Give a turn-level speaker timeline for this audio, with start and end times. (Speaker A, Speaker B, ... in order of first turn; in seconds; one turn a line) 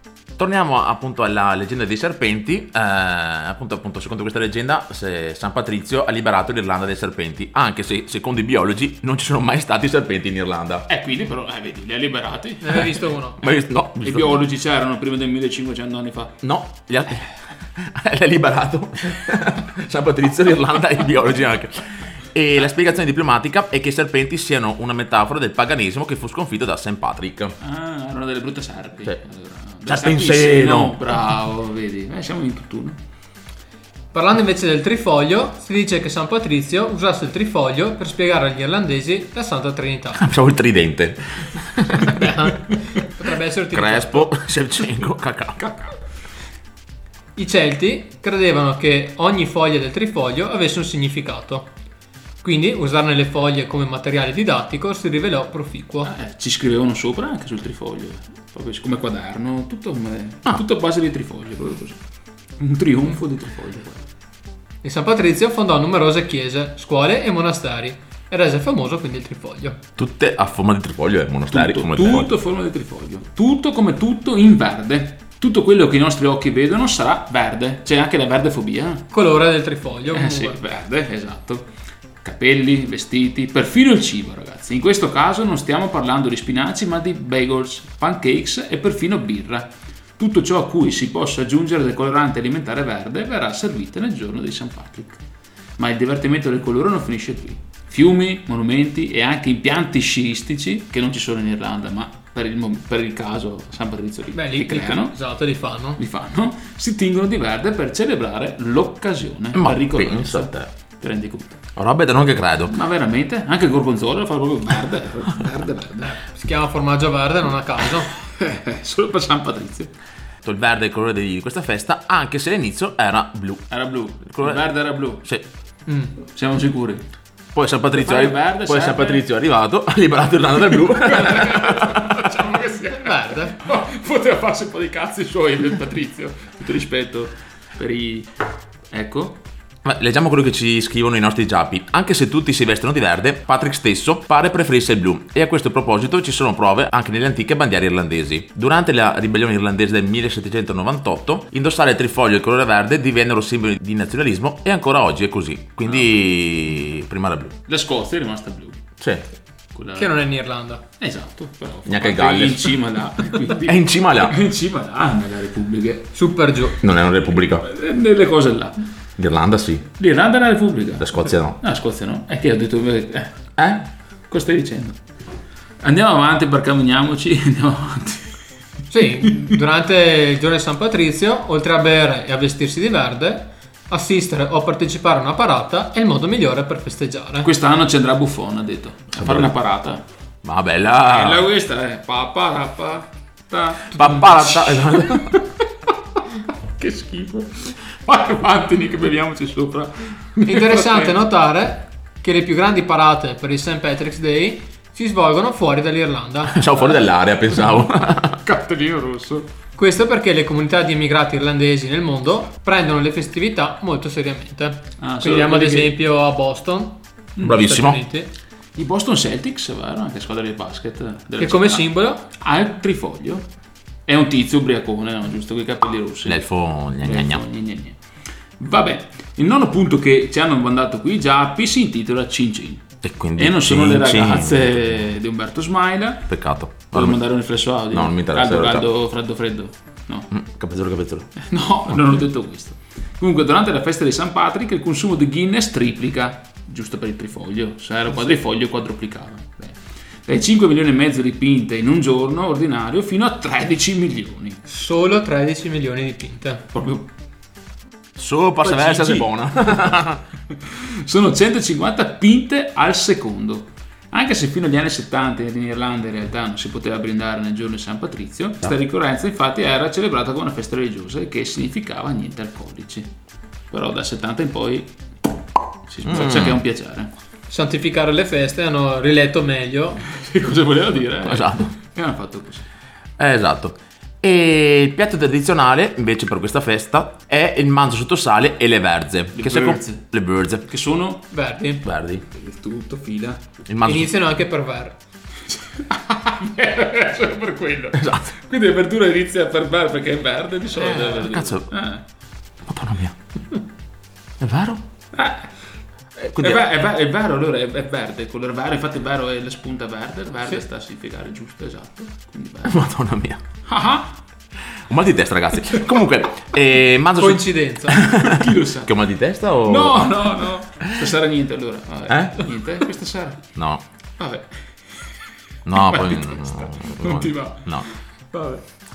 Speaker A: 0.4-10.8
Speaker B: 10.9-12.9
Speaker C: 12.6-13.4
Speaker A: 13.4-14.4
Speaker B: 14.0-16.3
Speaker A: 16.4-27.5
Speaker B: 27.6-33.0
Speaker A: 29.9-31.0
Speaker C: 34.1-40.2
Speaker A: 40.2-42.1
Speaker C: 42.0-44.3
Speaker A: 43.7-45.6
Speaker B: 45.6-45.9
Speaker C: 47.4-51.7
Speaker C: 52.4-56.1
Speaker B: 56.0-62.0
Speaker B: 62.6-64.0
Speaker C: 64.8-69.8
Speaker A: 70.0-72.3
Speaker B: 71.5-79.1
Speaker C: 79.1-80.6
Speaker B: 80.1-81.7
Speaker B: 82.2-95.2
Speaker B: 95.8-105.1
Speaker C: 104.3-106.0
Speaker B: 106.0-111.6
Speaker A: 109.5-110.7
Speaker A: 111.8-112.7
Speaker B: 112.7-116.2
Speaker C: 116.0-118.1
Speaker B: 118.2-119.9
Speaker A: 120.4-123.7
Speaker B: 123.7-125.2
Speaker A: 124.2-124.6
Speaker C: 125.9-126.1
Speaker B: 126.3-127.0
Speaker A: 127.5-132.1
Speaker B: 127.9-129.2
Speaker B: 130.7-138.3
Speaker C: 132.9-133.5
Speaker B: 138.9-139.4
Speaker A: 139.8-157.6
Speaker B: 157.7-158.8
Speaker B: 159.7-160.2
Speaker C: 159.9-160.8
Speaker B: 161.0-166.1
Speaker A: 161.8-162.7
Speaker A: 163.6-164.4
Speaker C: 166.1-166.8
Speaker A: 166.8-167.7
Speaker B: 167.6-168.8
Speaker A: 169.2-169.9
Speaker B: 170.0-173.3
Speaker A: 171.0-171.6
Speaker A: 173.6-173.8
Speaker B: 174.3-175.0
Speaker B: 175.8-178.2
Speaker C: 178.9-187.5
Speaker B: 187.4-190.0
Speaker A: 189.2-189.5
Speaker A: 190.4-191.5
Speaker B: 191.0-195.2
Speaker A: 193.9-195.3
Speaker B: 196.8-201.1
Speaker C: 200.5-206.9
Speaker A: 206.5-208.3
Speaker B: 208.4-209.5
Speaker C: 209.8-218.3
Speaker B: 215.0-215.9
Speaker A: 217.4-218.0
Speaker B: 218.8-223.4
Speaker C: 221.4-222.2
Speaker B: 224.1-226.5
Speaker A: 226.2-227.4
Speaker B: 227.0-228.0
Speaker B: 228.6-232.8
Speaker A: 233.0-235.0
Speaker B: 233.4-236.2
Speaker A: 236.3-237.2
Speaker B: 236.9-240.3
Speaker A: 237.9-238.8
Speaker A: 240.3-241.3
Speaker B: 241.4-254.6
Speaker C: 254.7-256.6
Speaker B: 256.7-257.1
Speaker A: 258.1-260.2
Speaker B: 258.6-259.3
Speaker B: 261.0-273.1
Speaker B: 273.7-274.9
Speaker B: 275.9-277.1
Speaker A: 276.1-276.6
Speaker C: 277.5-280.0
Speaker B: 280.1-282.6
Speaker A: 281.2-281.7
Speaker A: 283.2-290.6
Speaker B: 289.4-290.0
Speaker B: 290.7-291.2
Speaker C: 291.3-291.8
Speaker A: 291.8-292.2
Speaker B: 292.3-293.4
Speaker A: 293.7-294.1
Speaker C: 293.8-294.9
Speaker B: 295.9-302.0
Speaker A: 298.0-298.3
Speaker A: 300.8-301.7
Speaker A: 302.6-303.1
Speaker A: 304.4-304.8
Speaker B: 305.1-305.4
Speaker A: 306.2-306.6
Speaker B: 306.4-312.8
Speaker A: 312.6-313.4
Speaker B: 313.7-314.1
Speaker A: 314.9-320.2
Speaker C: 317.2-318.0
Speaker B: 318.1-318.9
Speaker B: 319.6-323.4
Speaker A: 322.1-322.4
Speaker A: 323.6-323.8
Speaker B: 324.2-324.5
Speaker A: 325.6-327.9
Speaker B: 325.7-327.8
Speaker B: 328.3-328.6